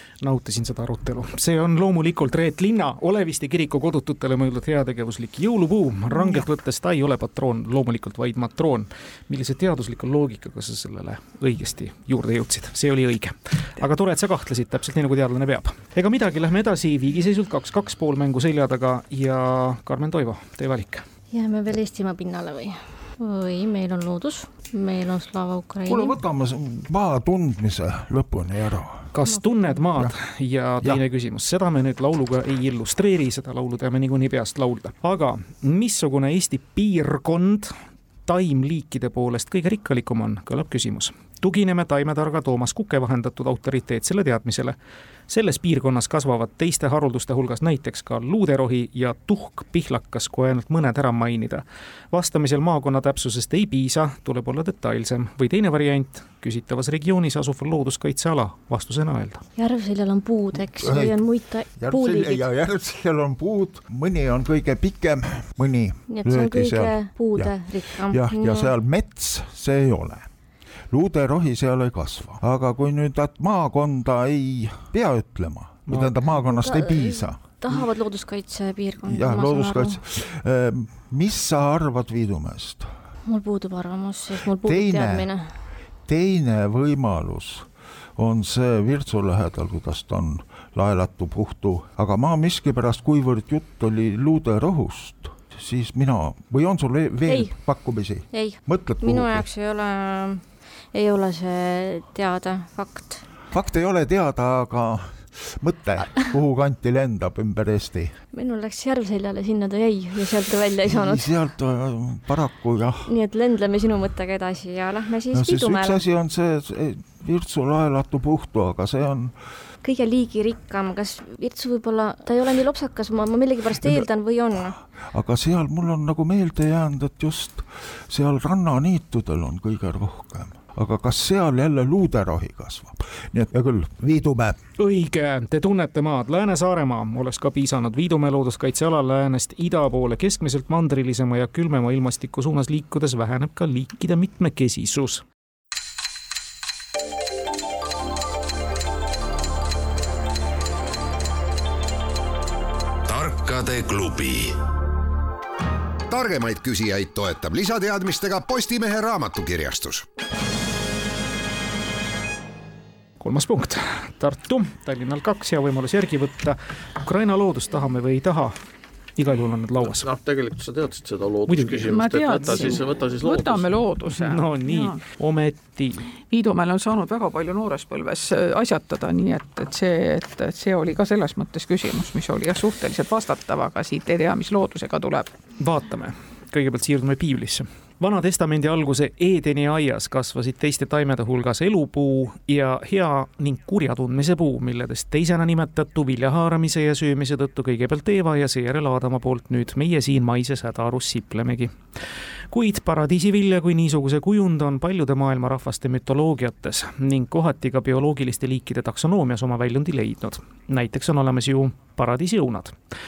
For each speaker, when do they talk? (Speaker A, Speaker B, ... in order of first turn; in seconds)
Speaker A: 0.2-21.1, 29.1-37.7, 38.3-44.8, 45.3-59.4, 75.9-76.1, 134.8-145.2, 163.2-168.6, 169.2-170.1, 171.5-172.8, 174.1-176.1, 185.6-201.8, 202.5-212.8
Speaker B: 6.1-6.4, 171.9-175.0, 176.3-185.3
Speaker C: 21.3-26.2, 59.6-62.5, 66.1-68.7, 76.4-80.0, 83.2-85.5, 97.3-97.5, 98.3-103.2, 108.3-111.3, 113.1-116.0, 119.8-124.8
Speaker D: 25.9-29.1, 60.5-61.2, 61.8-70.3, 70.9-77.4, 79.0-82.9, 84.3-85.3, 86.1-99.5, 103.5-108.2, 110.8-113.1, 115.3-119.3, 123.8-134.6
Speaker E: 153.1-154.6, 156.1-160.1
Speaker F: 169.9-173.7